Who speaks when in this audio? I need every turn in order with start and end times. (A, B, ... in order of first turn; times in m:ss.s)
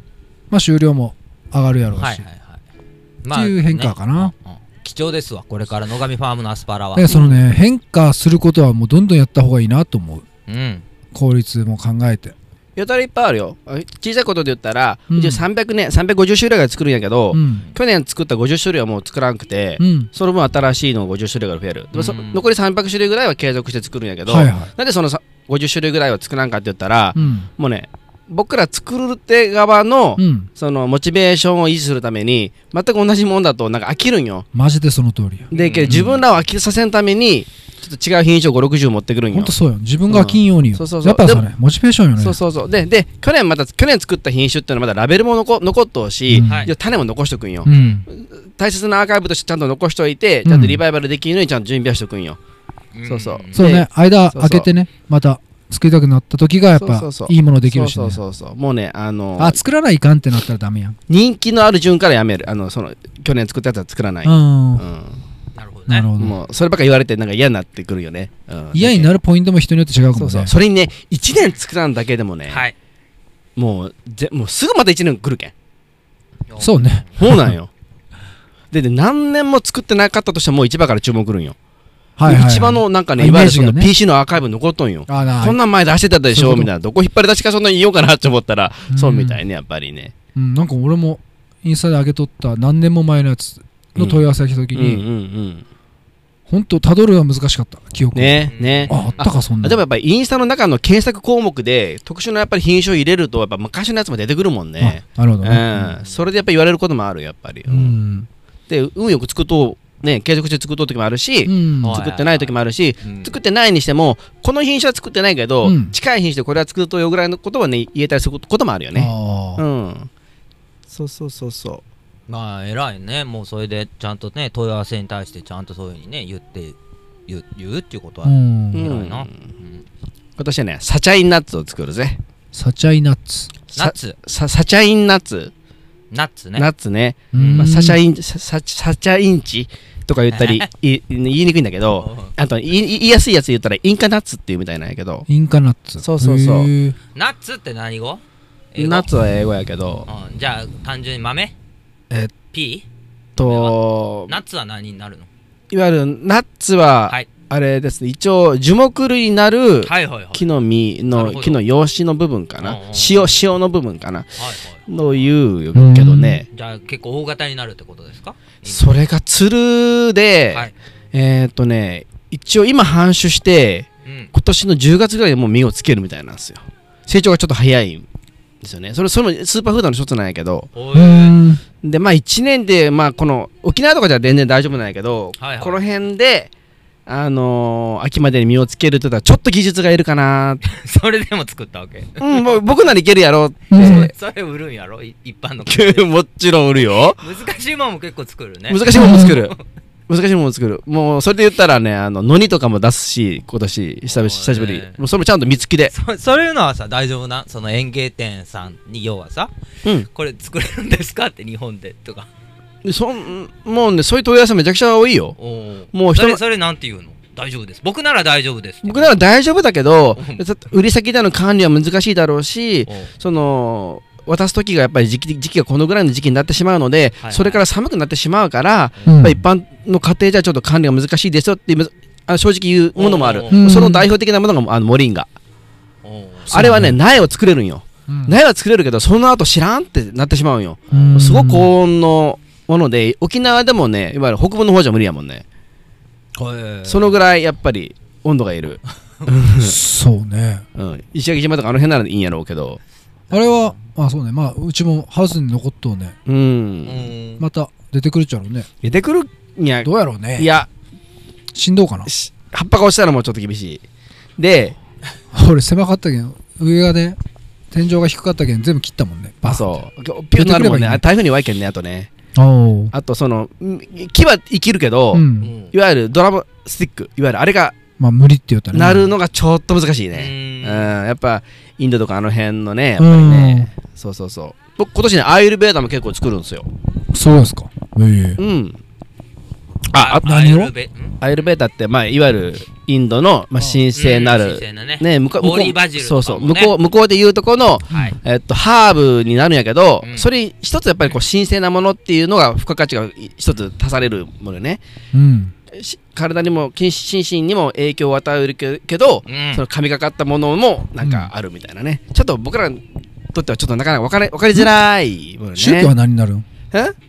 0:00.5-0:02.2 A
0:02.0-0:02.6 B
0:03.2-0:07.4 B
0:03.3-0:04.3 A
0:06.9-0:10.2 A
0:10.5-0:10.8 B
0:11.1-0:12.3 A
0:12.8-0:34.4 C
0:15.1-0:15.4 A
0:17.3-0:17.6 A
0:19.8-0:20.1 A
0:21.9-0:22.4 B
0:24.2-0:24.7 A
0:27.1-0:27.5 A
0:30.2-0:30.5 A
0:34.5-0:36.2 A
0:35.5-0:39.5 C
0:35.5-0:36.2 B
0:39.3-0:42.4 A
0:40.1-0:41.5 C
0:42.2-0:52.4 C
0:46.3-0:46.7 A
0:46.4-0:46.7 B
0:47.6-0:48.0 A
0:47.7-0:48.0 B
0:50.4-0:50.8 A
0:52.9-0:53.6 B
0:53.0-0:54.7 C
0:53.5-0:58.2 A
0:56.8-0:59.6 C
0:59.4-1:01.0 A
1:01.1-1:05.2 C
1:04.2-1:04.8 A
1:05.5-1:06.1 B
1:05.9-1:06.4 A
1:06.2-1:09.1 C
1:08.7-1:10.5 A
1:10.2-1:12.6 C
1:12.5-1:12.7 B
1:13.6-1:15.5 C
1:16.5-1:17.1 B
1:16.6-1:17.5 A
1:17.2-1:17.7 C
1:18.7-1:21.6 C
1:22.2-1:23.9 A
1:22.2-1:30.1 C
1:25.1-1:25.6 A
1:26.3-1:26.7 A
1:28.9-1:29.4 A
1:30.4-1:35.0 A
1:34.0-1:35.6 C
1:36.5-1:39.8 A
1:38.1-1:48.0 C
1:38.5-1:39.3 B
1:44.8-1:45.9 A
1:47.7-1:48.3 A
1:48.7-2:00.1 C
1:51.4-1:52.0 A
1:51.8-1:53.3 B
1:55.6-1:55.9 A
1:58.9-1:59.6 A
2:00.9-2:01.8 C
2:02.3-2:06.8 B
2:07.3-2:09.8 B
2:08.2-2:08.8 A
2:08.7-2:09.3 C
2:10.4-2:12.2 C
2:12.5-2:13.5 A
2:13.7-2:15.5 C
2:13.7-2:14.2 B
2:16.1-2:16.7 B
2:16.6-2:25.2 C
2:17.3-2:18.0 A
2:17.3-2:17.7 B
2:20.3-2:20.7 B
2:22.0-2:22.3 B
2:25.3-2:26.9 A
2:26.0-2:26.7 C
2:27.1-2:28.2 B
2:28.7-2:29.1 B
2:28.8-2:30.1 C
2:30.1-2:31.5 B
2:32.5-2:32.8 B
2:33.4-2:33.8 B
2:33.4-2:34.3 C
2:34.3-2:35.3 B
2:35.7-2:46.4 C
2:39.8-2:40.5 B
2:41.1-2:41.6 B
2:42.6-2:43.4 B
2:44.4-2:45.2 B
2:45.7-2:46.4 A
2:46.5-2:48.9 B
2:48.6-2:58.0 C
2:54.0-2:54.3 B
2:58.6-3:00.7 C
3:00.7-3:01.4 B
3:00.9-3:01.6 A
3:01.8-3:06.5 C
3:05.4-3:05.8 B
3:07.1-3:10.6 C
3:10.6-3:12.6 B
3:12.2-3:14.1 C
3:13.7-3:14.1 A
3:13.8-3:16.1 B
3:15.7-3:17.2 C
3:17.2-3:19.6 B
3:18.7-3:19.5 C
3:18.9-3:19.4 A
3:20.1-3:25.9 C
3:24.1-3:25.0 B
3:25.9-3:29.5 B
3:30.1-3:32.3 B
3:32.8-3:35.4 C
3:35.4-3:39.1 B
3:35.9-3:36.4 C
3:38.8-3:55.3 C
3:47.2-3:47.6 B
3:49.1-3:49.4 A
3:53.0-3:53.8 B
3:53.5-3:54.1 A
3:56.0-3:56.6 B
3:56.5-3:57.0 A
3:56.5-4:05.4 C
3:58.1-3:58.4 A
4:00.9-4:01.7 A
4:06.4-4:07.2 B
4:06.9-4:09.8 C
4:09.6-4:10.6 A
4:10.8-4:12.8 C
4:13.3-4:13.7 B
4:13.3-4:16.2 A
4:16.2-4:17.1 C
4:16.8-4:17.4 B
4:17.4-4:18.7 A
4:18.8-4:20.7 C
4:19.8-4:20.5 A
4:21.5-4:22.1 A
4:22.1-4:23.8 C
4:24.4-4:24.8 C
4:25.3-4:27.2 A
4:27.7-4:29.8 A
4:29.4-4:32.1 C
4:30.3-4:31.0 A
4:32.3-4:32.9 A
4:32.9-4:37.7 C
4:35.1-4:35.5 A
4:35.4-4:35.7 B
4:38.0-4:39.1 A
4:38.7-4:46.7 C
4:40.1-4:41.0 B
4:43.0-4:43.7 A
4:47.1-4:48.4 A
4:48.4-4:48.8 C
4:49.9-4:50.2 C
4:49.9-4:51.2 B
4:50.2-4:50.7 A
4:51.2-5:04.8 C
4:54.0-4:56.7 B
4:57.9-4:58.2 B
5:00.0-5:00.3 B
5:05.1-5:05.5 A
5:05.7-5:12.8 C
5:09.3-5:09.6 B
5:11.0-5:11.3 A
5:13.3-5:15.9 C
5:15.6-5:16.4 A